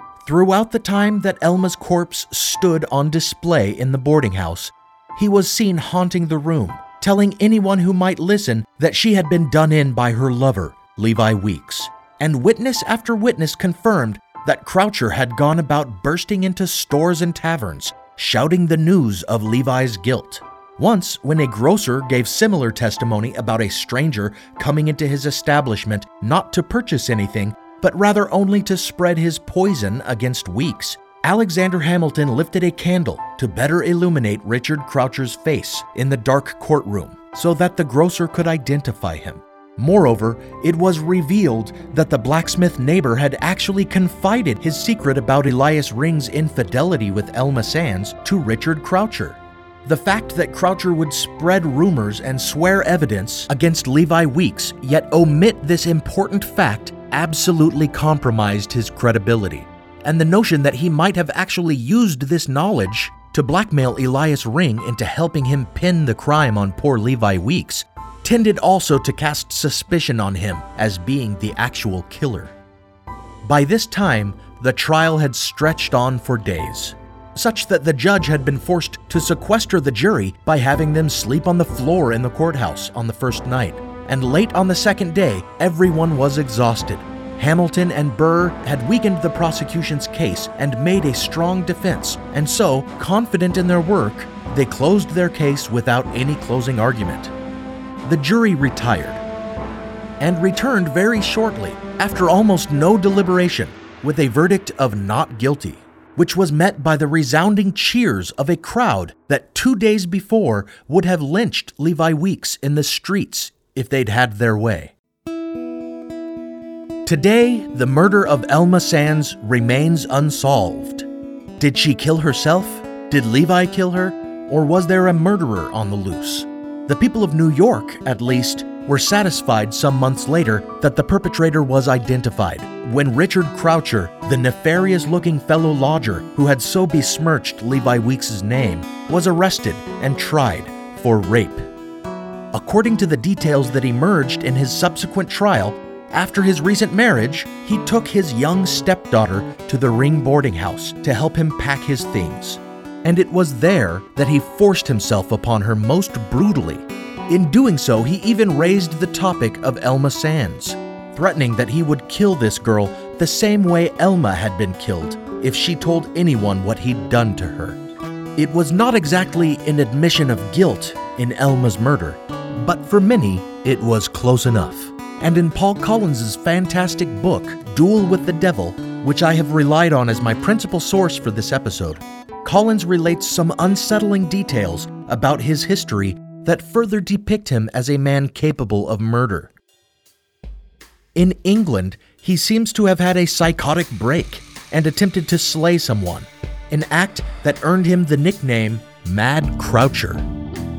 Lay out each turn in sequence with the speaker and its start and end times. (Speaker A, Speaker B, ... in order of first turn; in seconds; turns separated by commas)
Speaker A: 0.2-72.5, Speaker A: 73.4-97.3, Speaker A: 98.0-99.2, Speaker A: 100.2-114.9, Speaker A: 117.0-121.1, Speaker A: 121.6-141.7, Speaker A: 142.5-167.8, Speaker A: 168.4-189.5, Speaker A: 191.1-200.2